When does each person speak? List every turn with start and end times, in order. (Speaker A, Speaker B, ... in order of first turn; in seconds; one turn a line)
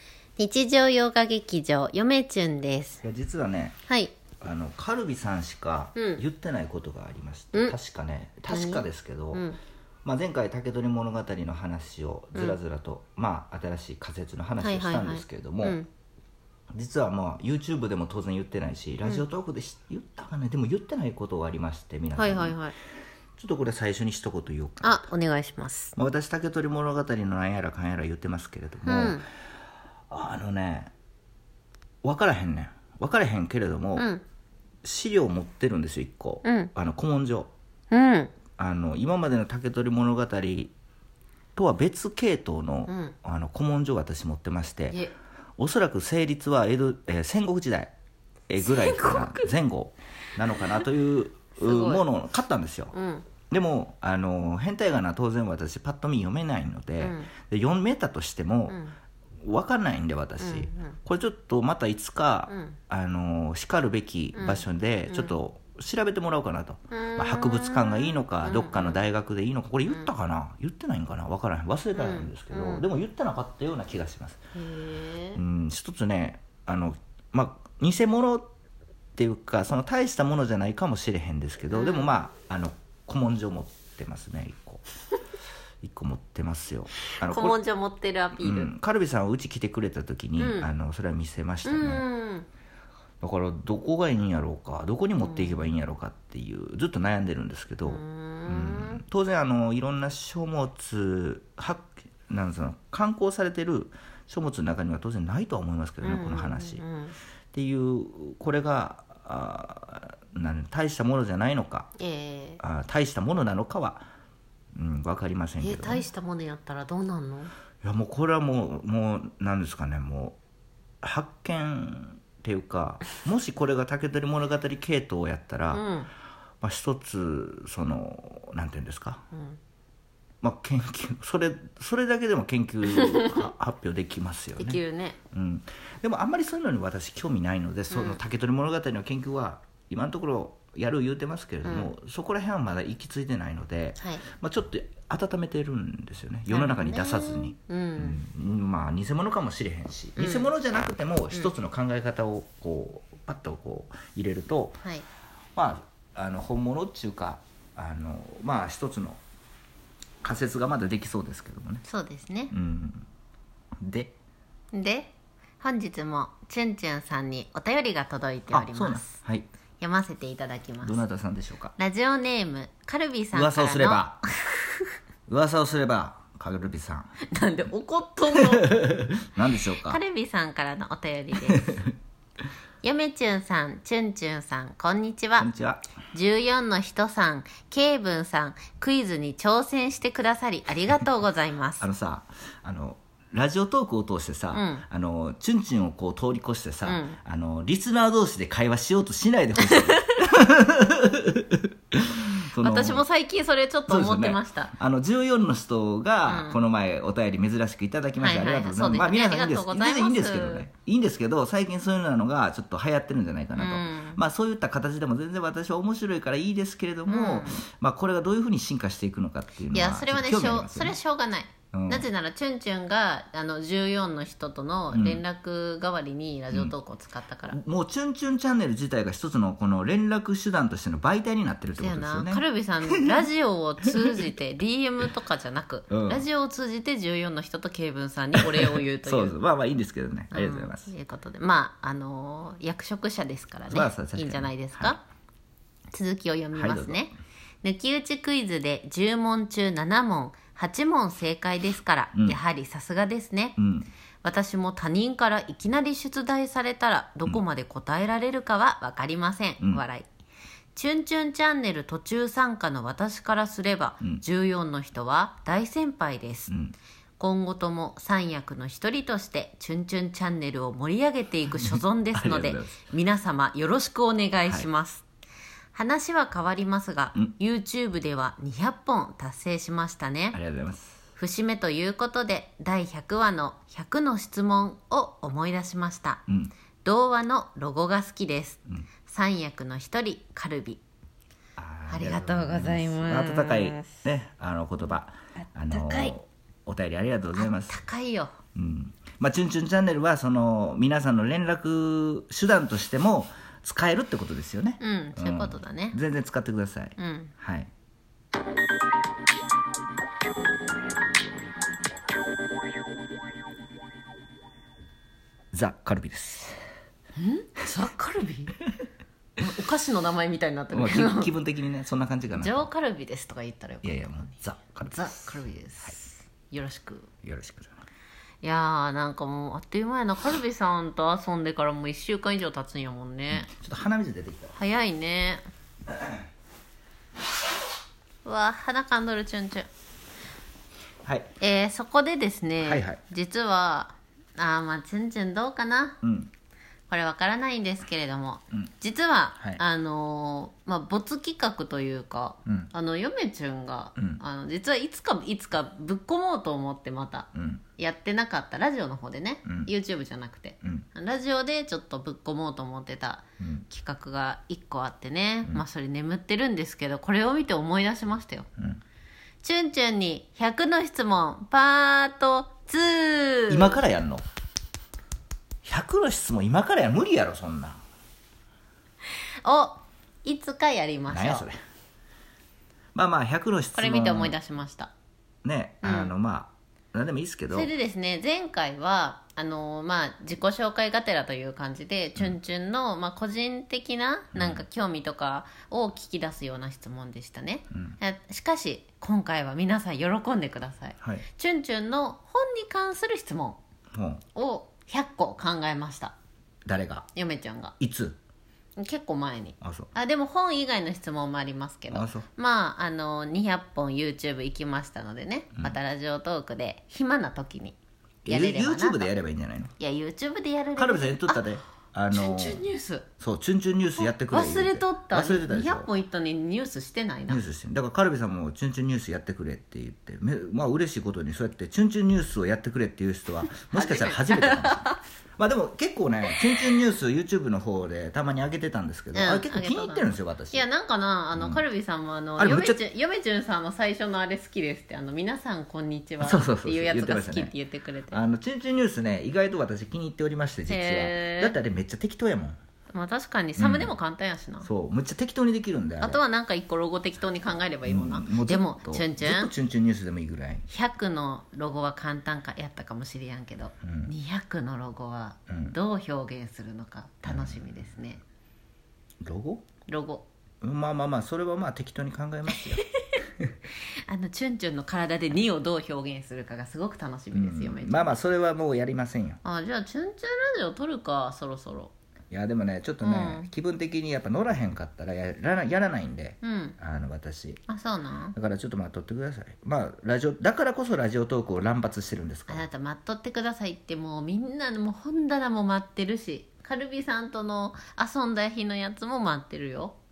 Speaker A: 0.4-3.0
Speaker B: 3.0-3.8
Speaker A: 3.9-4.2
Speaker B: 4.4-9.5
Speaker A: 6.0-6.2
Speaker A: 8.5-9.6
Speaker B: 10.0-15.8
Speaker A: 14.6-15.9
Speaker B: 16.7-22.6
Speaker A: 22.2-22.8
Speaker B: 23.4-25.0
Speaker A: 24.8-25.9
Speaker B: 26.0-29.2
Speaker A: 28.8-29.2
Speaker B: 30.1-30.9
Speaker B: 32.0-34.1
Speaker A: 34.0-34.2
Speaker B: 34.8-37.5
Speaker A: 36.4-36.7
Speaker A: 37.9-38.4
Speaker B: 38.6-40.7
Speaker B: 41.5-45.0
Speaker A: 42.9-43.1
Speaker B: 45.6-47.9
Speaker B: 48.5-53.0
Speaker A: 48.6-49.5
Speaker A: 51.6-52.0
Speaker A: 52.9-53.3
Speaker B: 53.5-58.8
Speaker A: 57.0-57.3
Speaker A: 58.7-58.9
Speaker B: 59.4-74.4
Speaker A: 60.4-61.0
Speaker A: 62.5-62.8
Speaker A: 64.3-65.3
Speaker A: 66.9-69.0
Speaker A: 72.0-72.8
Speaker A: 74.6-75.4
Speaker B: 75.3-78.5
Speaker B: 79.2-84.8
Speaker A: 81.7-82.1
Speaker B: 85.8-87.6
Speaker A: 87.2-88.7
Speaker B: 88.4-92.0
Speaker A: 90.4-90.7
Speaker A: 91.6-92.5
Speaker B: 93.2-106.8
Speaker A: 95.2-95.6
Speaker A: 97.8-99.0
Speaker A: 106.0-107.2
Speaker B: 107.5-111.9
Speaker A: 112.0-112.6
Speaker B: 112.6-114.1
Speaker B: 114.8-116.0
Speaker A: 115.6-117.5
Speaker B: 117.8-120.4
Speaker B: 121.0-125.8
Speaker A: 125.7-126.1
Speaker B: 126.6-129.2
Speaker A: 129.3-129.6
Speaker B: 130.4-134.8
Speaker A: 132.9-133.4
Speaker A: 134.6-135.2
Speaker B: 135.3-154.8
Speaker A: 137.9-138.2
Speaker A: 141.6-141.9
Speaker A: 144.0-144.2
Speaker A: 146.5-148.2
Speaker A: 150.2-150.5
Speaker B: 155.5-159.2
Speaker B: 160.2-161.8
Speaker A: 161.8-162.5
Speaker B: 162.5-163.1
Speaker B: 163.8-164.1
Speaker A: 164.7-169.2
Speaker B: 168.5-169.5
Speaker A: 169.8-171.0
Speaker B: 170.8-171.7
Speaker A: 171.8-174.9
Speaker B: 173.3-174.2
Speaker B: 175.3-177.1
Speaker A: 177.3-178.8
Speaker B: 178.3-180.0
Speaker A: 179.8-181.8
Speaker A: 182.8-185.5
Speaker B: 185.4-185.9
Speaker A: 186.1-191.9
Speaker B: 191.8-203.0
Speaker A: 194.5-194.8
Speaker A: 196.8-197.2
Speaker A: 199.7-200.1
Speaker A: 202.6-204.7
Speaker B: 203.9-221.0
Speaker A: 206.3-206.6
Speaker A: 208.2-210.7
Speaker A: 213.6-214.2
Speaker A: 217.1-217.6
Speaker A: 219.7-227.6
Speaker B: 221.7-222.1
Speaker B: 224.9-225.2
Speaker B: 227.5-232.4
Speaker A: 231.8-239.3
Speaker B: 235.9-236.2
Speaker B: 238.3-240.9
Speaker A: 240.3-245.0
Speaker B: 243.7-244.9
Speaker A: 245.9-253.6
Speaker B: 246.5-247.1
Speaker B: 253.6-253.9
Speaker A: 254.2-260.1
Speaker A: 260.8-266.5
Speaker B: 266.5-266.8
Speaker A: 267.2-275.0
Speaker B: 271.6-272.8
Speaker B: 274.4-274.7
Speaker A: 275.7-280.4
Speaker B: 280.3-281.1
Speaker A: 281.2-286.2
Speaker B: 286.3-286.5
Speaker A: 286.8-290.8
Speaker B: 291.6-297.8
Speaker A: 291.9-294.1
Speaker A: 295.7-296.1
Speaker A: 297.4-298.4
Speaker B: 298.6-307.7
Speaker A: 304.8-306.0
Speaker A: 307.0-307.3
Speaker B: 315.5-316.6
Speaker A: 317.2-318.6
Speaker A: 319.4-321.3
Speaker B: 320.7-322.7
Speaker A: 322.3-324.2
Speaker B: 323.8-325.9
Speaker A: 324.9-327.1
Speaker B: 327.2-327.8
Speaker A: 328.4-333.5
Speaker B: 333.3-334.6
Speaker A: 334.6-335.4
Speaker A: 338.2-339.7
Speaker B: 341.1-341.3
Speaker A: 341.4-346.0
Speaker B: 342.6-343.0
Speaker B: 346.0-346.3
Speaker A: 346.9-368.5
Speaker B: 354.0-354.2
Speaker B: 357.4-357.6
Speaker B: 359.5-359.7
Speaker B: 363.4-363.7
Speaker A: 369.4-373.8
Speaker B: 373.5-374.2
Speaker B: 375.6-377.8
Speaker A: 379.4-381.4
Speaker B: 381.1-381.5
Speaker B: 382.9-384.4
Speaker A: 383.8-384.9
Speaker B: 385.4-387.7
Speaker A: 385.8-386.1
Speaker A: 387.5-403.6
Speaker B: 394.3-394.6
Speaker B: 397.7-398.0
Speaker B: 403.9-404.2
Speaker A: 404.4-406.1
Speaker B: 406.7-407.1
Speaker A: 407.1-407.8
Speaker B: 407.8-408.2
Speaker A: 408.8-419.1
Speaker B: 409.6-409.9
Speaker B: 411.9-412.3
Speaker B: 418.2-419.7
Speaker A: 419.8-421.5
Speaker B: 420.8-422.7
Speaker A: 422.1-423.1
Speaker B: 423.2-425.9
Speaker A: 424.0-427.4
Speaker B: 427.3-440.7
Speaker A: 433.7-435.0
Speaker A: 436.4-436.7
Speaker A: 439.1-448.2
Speaker B: 441.3-441.6
Speaker B: 442.4-442.8
Speaker B: 446.2-447.5
Speaker B: 448.1-452.6
Speaker A: 450.7-451.6
Speaker A: 452.9-454.7
Speaker B: 453.6-453.9
Speaker B: 454.6-456.2
Speaker A: 456.0-459.5
Speaker B: 457.9-460.7
Speaker A: 460.7-468.2
Speaker B: 463.8-464.1
Speaker B: 465.5-465.8
Speaker B: 467.2-467.8
Speaker B: 469.2-469.7
Speaker A: 469.9-470.2
Speaker B: 470.6-472.8
Speaker A: 472.5-473.2
Speaker A: 474.1-478.2
Speaker B: 477.3-479.4
Speaker A: 479.4-481.9
Speaker B: 482.3-487.6
Speaker A: 483.0-483.5
Speaker A: 486.4-486.8
Speaker A: 487.7-488.4
Speaker B: 488.4-492.7
Speaker A: 492.5-500.0